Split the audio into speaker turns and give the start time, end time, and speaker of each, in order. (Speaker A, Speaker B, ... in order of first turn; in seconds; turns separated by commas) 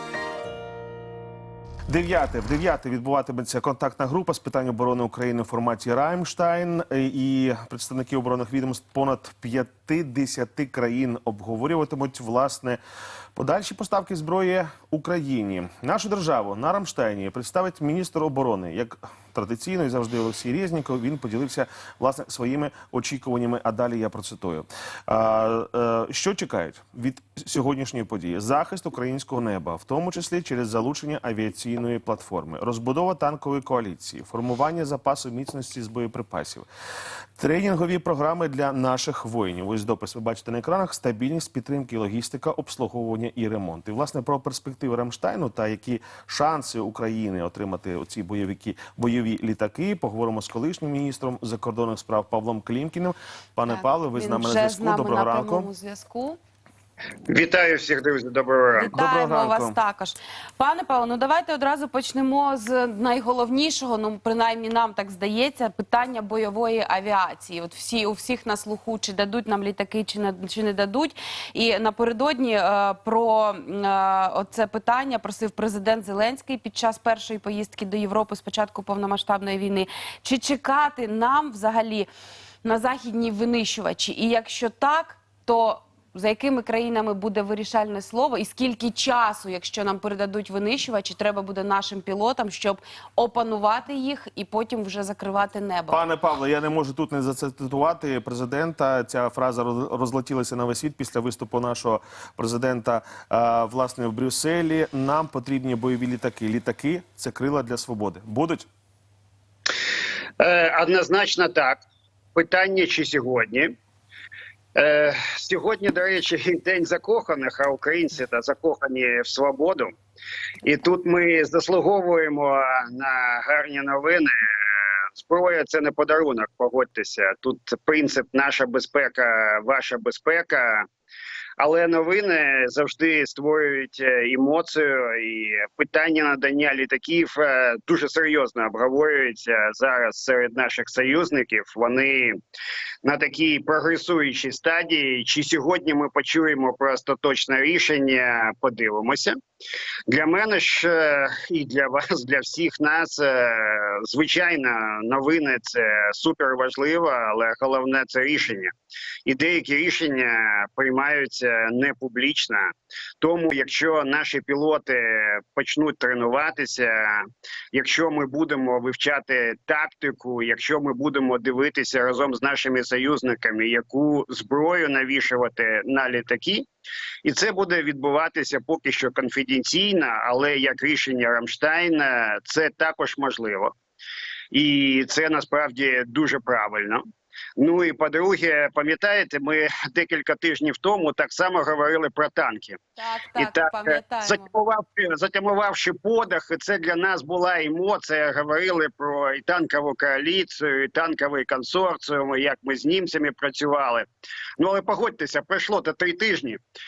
Speaker A: 1.9-12.8, Speaker A: 13.3-36.7, Speaker A: 37.4-55.7, Speaker B: 53.7-56.4, Speaker C: 57.3-58.9, Speaker B: 58.7-82.1, Speaker A: 58.9-59.8, Speaker B: 82.6-96.0, Speaker A: 95.9-108.7, Speaker C: 110.4-111.8, Speaker C: 112.3-113.7, Speaker C: 114.7-119.9, Speaker C: 120.6-124.3, Speaker C: 125.2-130.9, Speaker C: 131.6-142.4, Speaker C: 143.0-149.4, Speaker C: 150.1-158.7, Speaker C: 159.2-176.7, Speaker C: 177.2-183.7, Speaker C: 184.5-187.0, Speaker C: 187.6-192.8, Speaker B: 193.0-194.5, Speaker C: 193.4-204.1, Speaker C: 204.6-206.6